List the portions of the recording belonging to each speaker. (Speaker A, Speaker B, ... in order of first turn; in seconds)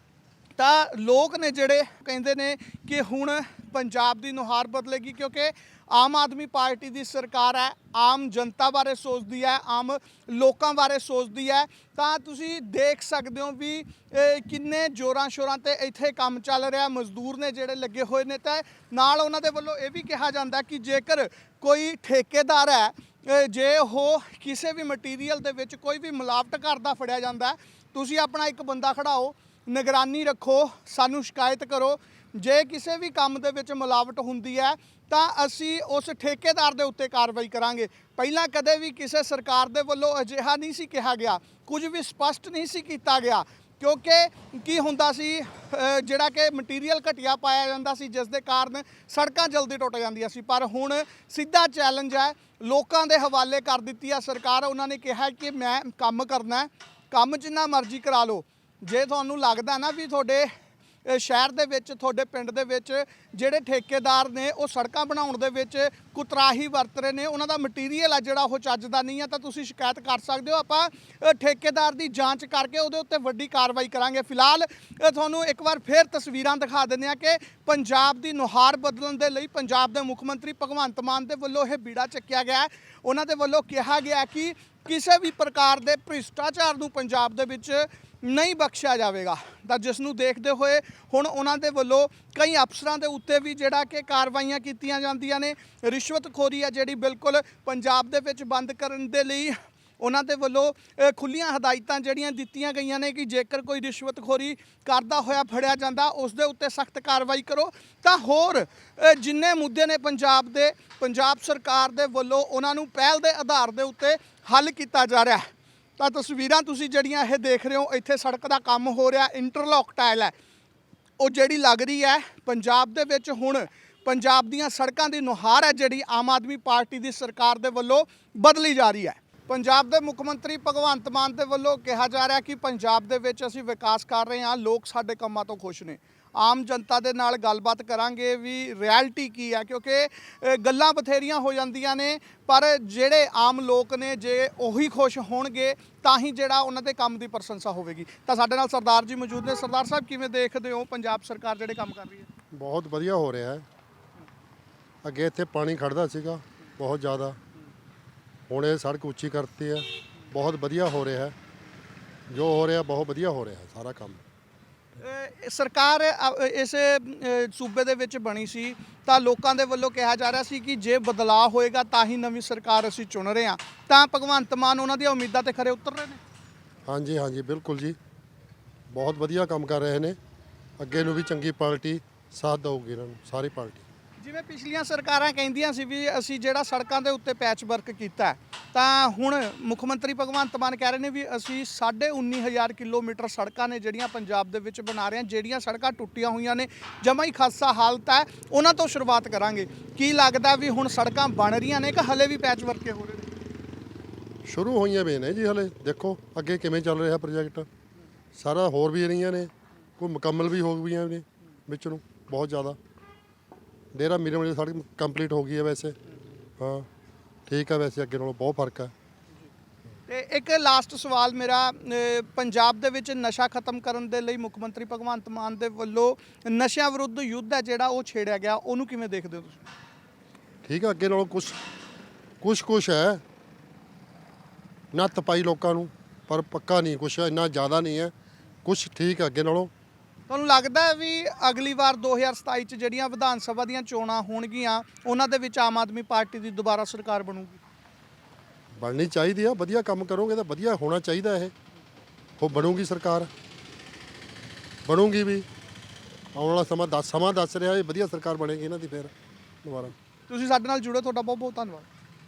Speaker A: 0.6-60.5, 61.0-115.5, 116.0-120.3, 121.2-152.3, 165.0-176.2, 184.2-203.3, 220.1-229.6, 240.3-247.6, 260.3-261.9
Speaker B: 152.5-153.6, 155.0-157.4, 158.5-161.3, 162.3-164.2, 176.8-178.0, 178.9-180.2, 180.8-183.8, 204.4-207.7, 208.3-212.8, 213.9-216.0, 216.6-216.9, 217.5-218.9, 230.6-231.6, 232.4-233.2, 234.9-238.1, 238.6-239.7, 248.8-251.5, 252.4-253.3, 254.8-255.5, 256.3-259.1, 259.6-259.9